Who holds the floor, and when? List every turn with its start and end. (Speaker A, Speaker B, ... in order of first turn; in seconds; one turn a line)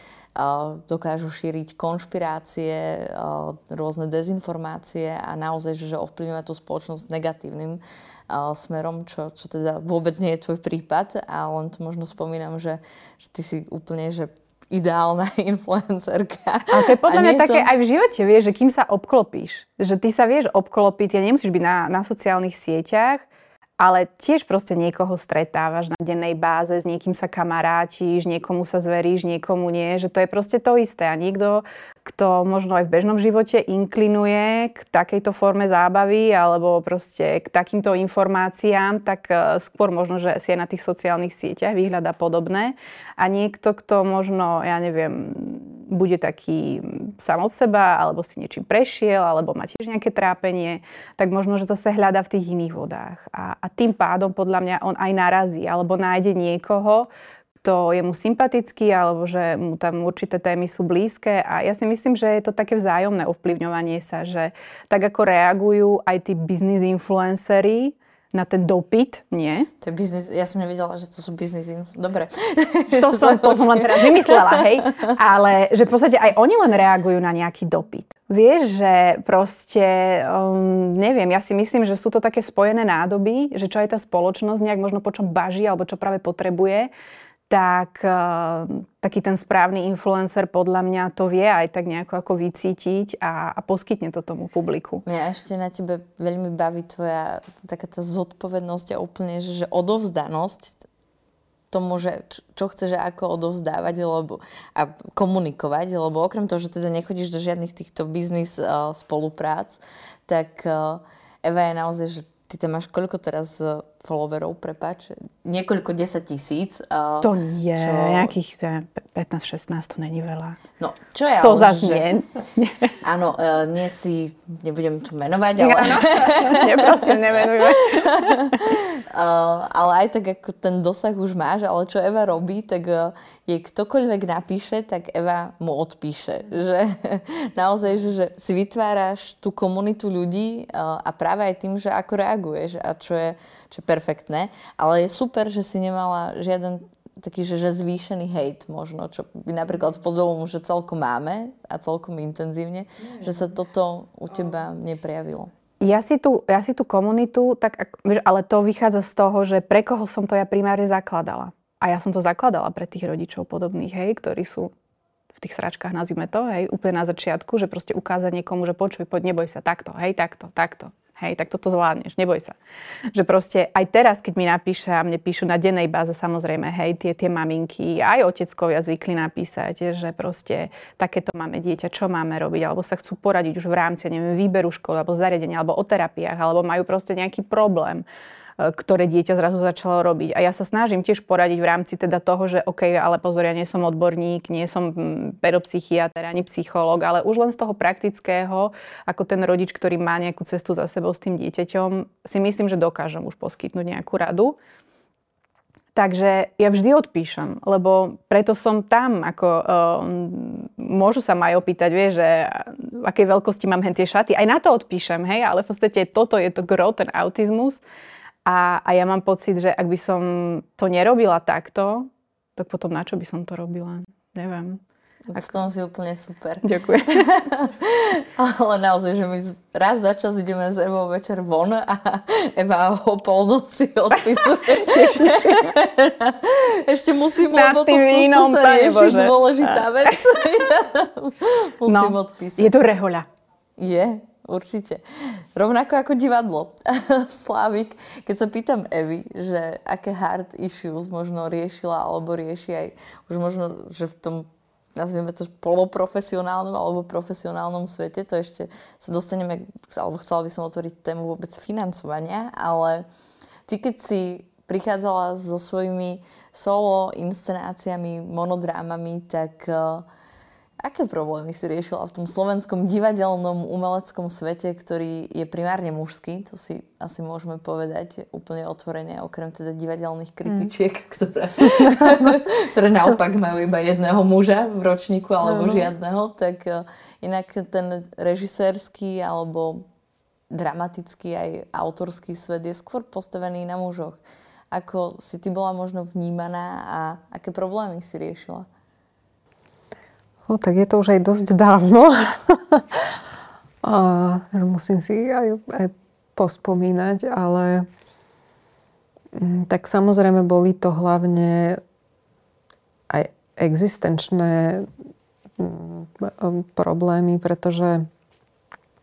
Speaker A: 0.4-17.7
Speaker B: 16.7-23.3
Speaker B: 23.8-57.1
Speaker B: 57.6-69.7
Speaker A: 69.8-75.1
Speaker B: 73.0-86.9
Speaker B: 87.5-95.0
Speaker A: 95.0-100.8
Speaker A: 101.7-118.3
Speaker B: 117.2-120.6
Speaker A: 120.8-122.1
Speaker B: 121.4-122.9
Speaker A: 123.0-155.5
Speaker B: 125.6-128.6
Speaker B: 155.8-164.7
Speaker B: 165.4-172.6
Speaker B: 173.1-188.1
Speaker B: 188.6-204.6
Speaker B: 205.9-217.8
Speaker B: 218.4-224.8
Speaker A: 225.3-242.7
Speaker B: 226.6-227.5
Speaker B: 234.2-235.8
Speaker B: 237.5-240.5
Speaker B: 241.9-243.3
Speaker A: 243.8-263.1
Speaker A: 263.7-270.1
Speaker A: 270.8-289.9
Speaker C: 281.8-282.4
Speaker C: 285.4-285.9
Speaker A: 290.5-294.2
Speaker A: 294.7-298.7
Speaker C: 300.5-303.2
Speaker C: 303.8-307.9
Speaker C: 309.4-311.8
Speaker C: 313.1-314.9
Speaker C: 315.6-318.1